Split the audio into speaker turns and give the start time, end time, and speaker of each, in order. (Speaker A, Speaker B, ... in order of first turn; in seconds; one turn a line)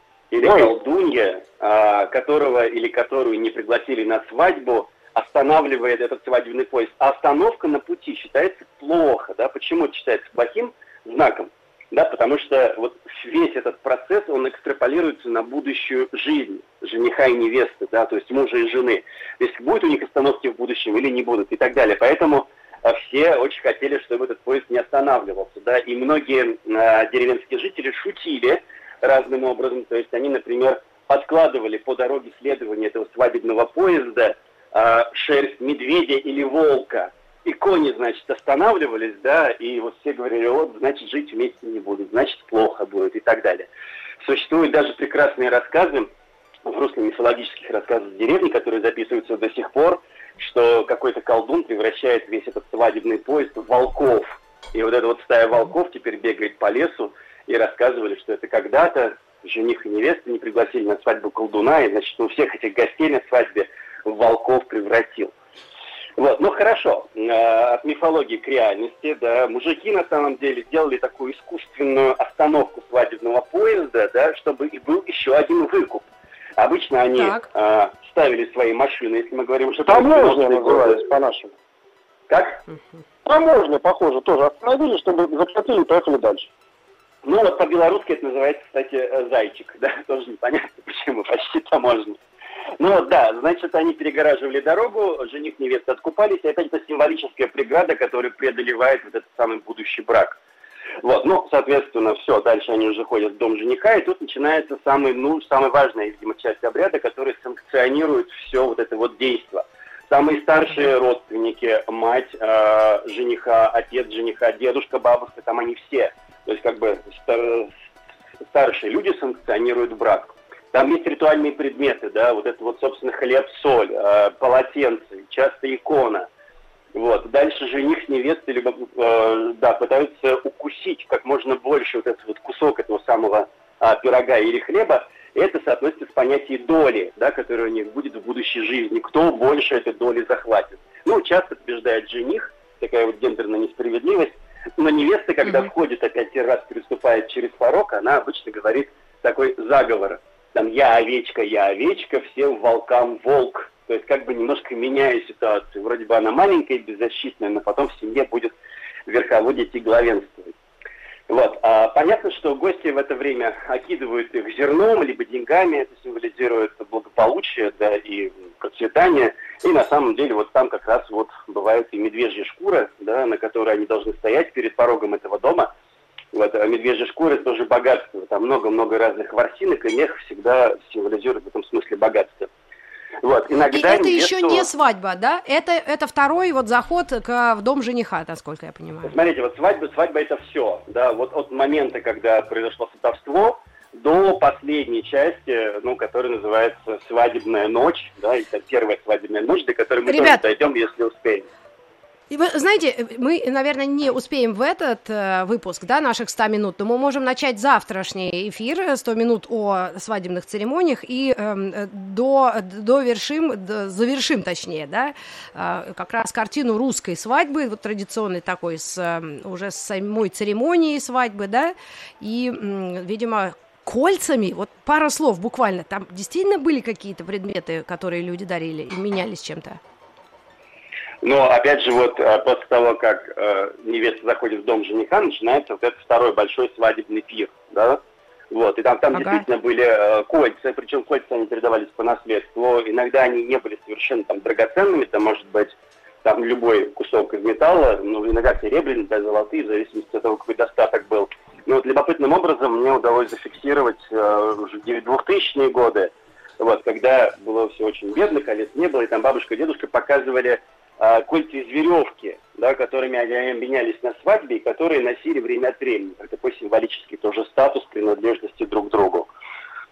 Speaker A: 0.3-43.7
Speaker B: 0.4-0.7
Speaker A: 44.2-46.1
Speaker A: 46.7-65.3
Speaker A: 66.2-81.0
Speaker C: 77.2-77.5
Speaker B: 79.9-81.5
Speaker A: 82.3-82.6
Speaker B: 83.2-86.5
Speaker A: 87.2-92.2
Speaker A: 92.8-100.4
Speaker A: 101.0-117.7
Speaker A: 118.5-126.3
Speaker A: 127.0-158.5
Speaker A: 159.1-160.5
Speaker A: 161.3-175.7
Speaker A: 176.3-182.5
Speaker A: 183.2-184.7
Speaker C: 183.7-189.1
Speaker A: 189.0-201.5
Speaker C: 200.1-200.4
Speaker C: 202.3-229.8
Speaker A: 231.2-238.0
Speaker A: 238.5-269.3
Speaker C: 239.1-239.4